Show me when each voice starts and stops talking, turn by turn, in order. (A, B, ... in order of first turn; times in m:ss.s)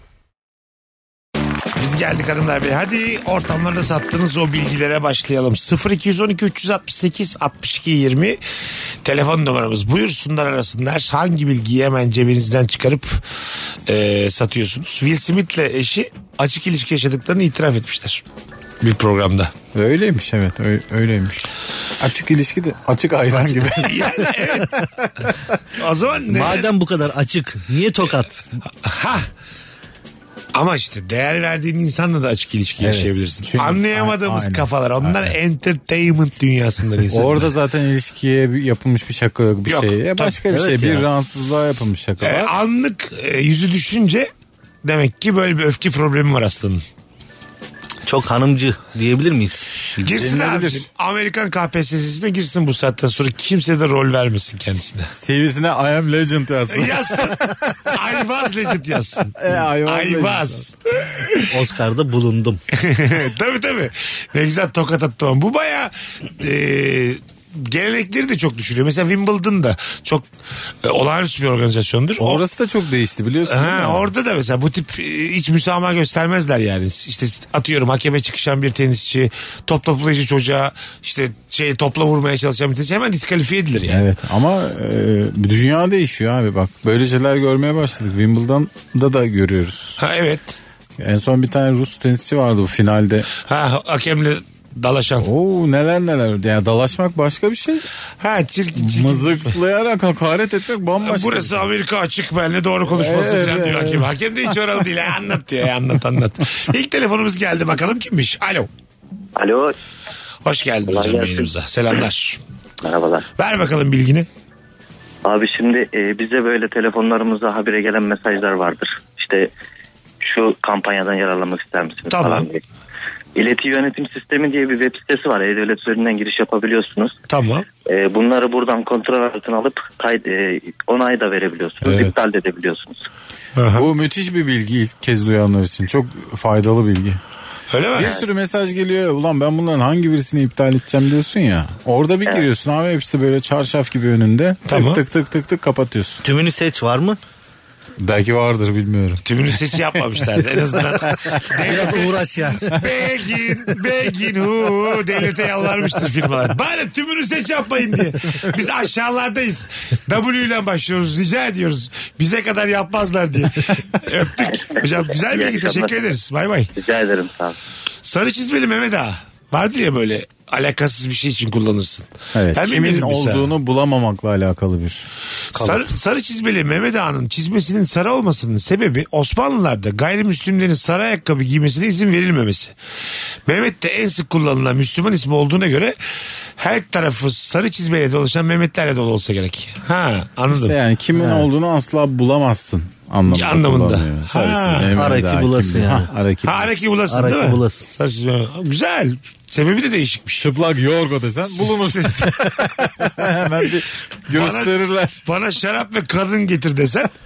0:01.8-0:08.4 A
0:09.0-0:13.2 A
0:13.9-0:18.2 A
0:18.8-0:19.5 A
0:19.7-0:24.3 B
0:23.4-0:24.7 A
0:25.8-0:26.7 A
0:26.3-0:28.5 C
0:28.8-0:29.3 A
0:30.5-0:37.5 A
0:32.8-0:35.4 B
0:37.1-0:42.5 B
0:39.7-0:40.4 A
0:40.5-0:41.1 C
0:42.2-0:44.3 A
0:44.8-0:46.8 A
0:48.0-0:49.7 C
0:50.0-0:50.9 B
0:50.0-0:55.1 A
0:55.1-0:57.9 B
0:56.7-0:57.4 A
0:57.9-0:59.3 A
0:59.3-1:00.6 B
0:59.9-1:01.4 A
1:01.5-1:02.6 C
1:02.8-1:10.3 A
1:10.8-1:12.4 A
1:12.2-1:14.1 B
1:13.5-1:24.0 A
1:23.9-1:30.0 B
1:30.0-1:30.6 A
1:31.0-1:33.3 B
1:33.5-1:35.3 A
1:35.2-1:37.9 B
1:38.2-1:39.5 A
1:38.8-1:41.6 B
1:41.0-1:48.7 A
1:42.9-1:44.1 B
1:49.4-1:49.8 D
1:50.4-1:52.4 A
1:50.9-1:51.5 D
1:52.8-1:53.2 D
1:53.4-1:54.3 A
1:55.2-1:59.5 D
2:00.2-2:02.6 D
2:02.1-2:02.5 A
2:03.4-2:07.1 D
2:07.3-2:07.7 A
2:07.9-2:13.1 D
2:11.8-2:12.1 B
2:13.6-2:13.9 A
2:13.8-2:17.2 B
2:17.7-2:18.2 A
2:17.9-2:26.2 B
2:24.7-2:25.0 A
2:26.2-2:27.2 C
2:28.0-2:29.2 B
2:29.3-2:46.7 A
2:31.6-2:32.8 C
2:44.5-2:46.0 D
2:46.8-2:47.6 D
2:48.0-2:53.5 A
2:52.4-2:55.9 B
2:55.6-3:02.8 A
3:03.5-3:06.0 A
3:06.6-3:10.8 A
3:10.5-3:16.8 B
3:11.2-3:11.5 C
3:13.3-3:14.9 A
3:14.9-3:16.1 C
3:16.4-3:20.5 A
3:17.1-3:17.8 C
3:20.4-3:25.2 B
3:21.5-3:22.9 A
3:24.3-3:24.7 A
3:25.2-3:27.1 A